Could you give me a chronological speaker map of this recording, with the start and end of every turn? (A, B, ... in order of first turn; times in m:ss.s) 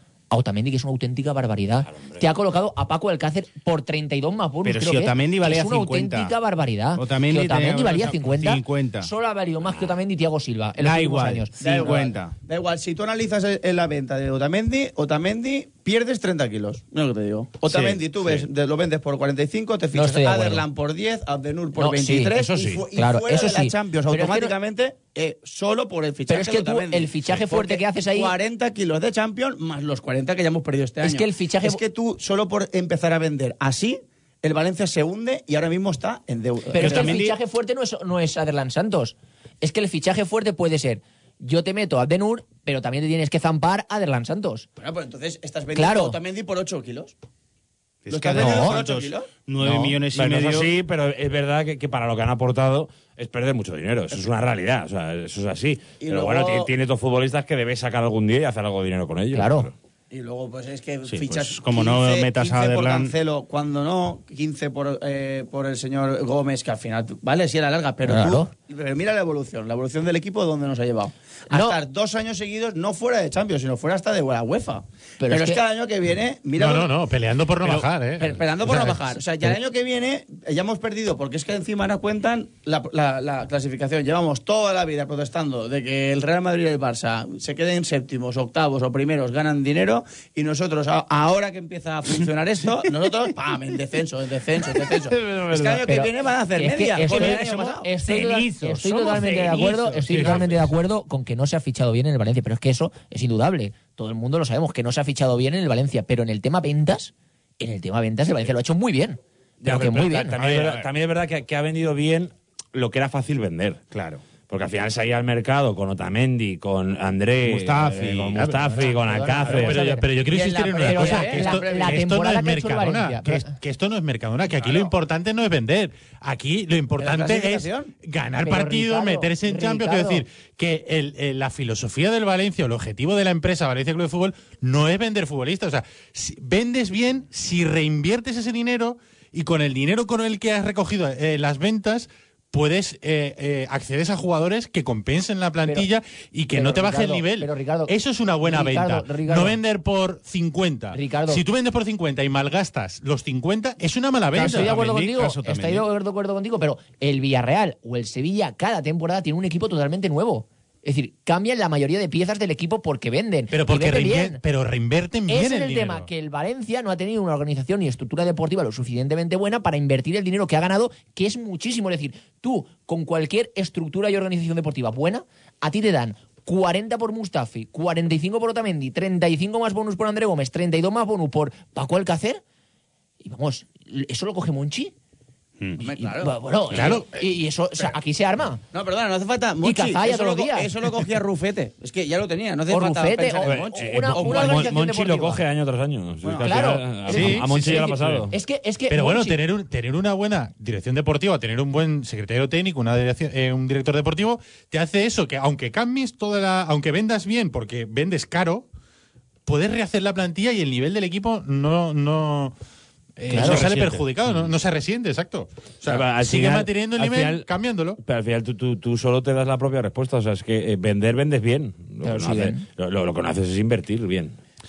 0:00.3-0:11.6 A
0:01.9-0:02.2 B
0:04.6-0:06.3 C
0:07.0-0:09.1 C
0:10.8-0:12.3 C
0:11.6-0:37.2 D
0:19.9-0:20.6 A
0:21.8-0:22.3 A
0:22.4-0:22.8 B
0:22.9-0:24.5 A
0:26.3-0:28.3 A
0:31.0-0:31.8 A
0:36.7-0:44.7 A
0:36.8-0:37.4 C
0:44.8-0:47.1 D
0:45.7-0:46.2 A
0:48.0-0:50.7 C
0:48.1-0:49.3 D
0:48.3-0:48.8 A
0:49.6-0:50.0 A
0:50.1-0:59.7 B
0:56.0-0:56.7 D
0:59.3-0:59.7 A
1:00.1-1:16.9 D
1:01.1-1:03.1 C
1:08.0-1:08.5 A
1:11.5-1:11.8 A
1:15.2-1:15.6 A
1:16.6-1:19.0 E
1:18.2-1:37.9 D
1:34.8-1:35.8 C
1:35.8-1:50.4 A
1:37.0-1:40.7 C
1:49.6-1:53.8 B
1:50.4-1:50.9 C
1:53.9-1:54.2 C
1:54.5-1:59.8 B
1:57.4-1:58.5 C
1:58.4-1:58.9 E
1:58.8-2:00.1 A
1:59.4-2:34.7 E
2:00.3-2:02.0 D
2:00.8-2:03.5 A
2:07.0-2:07.9 D
2:08.4-2:10.2 A
2:26.5-2:29.6 A
2:30.9-2:31.4 A
2:34.3-2:35.8 C
2:34.4-2:44.4 A
2:43.5-2:46.1 E
2:45.3-3:02.4 A
3:03.2-3:04.9 A
3:05.8-3:06.4 D
3:05.9-3:08.6 A
3:06.7-3:07.2 E
3:08.7-3:14.7 D
3:09.6-3:10.7 A
3:12.7-3:15.4 A
3:13.4-3:18.3 B
3:16.2-3:16.6 D
3:16.4-3:19.4 A
3:17.1-3:18.3 E
3:18.9-3:28.7 E
3:29.4-3:32.5 E
3:33.2-3:38.0 E
3:33.3-3:34.0 C
3:33.3-3:33.6 A
3:35.8-3:37.5 B
3:38.0-3:44.4 B
3:42.0-3:42.6 A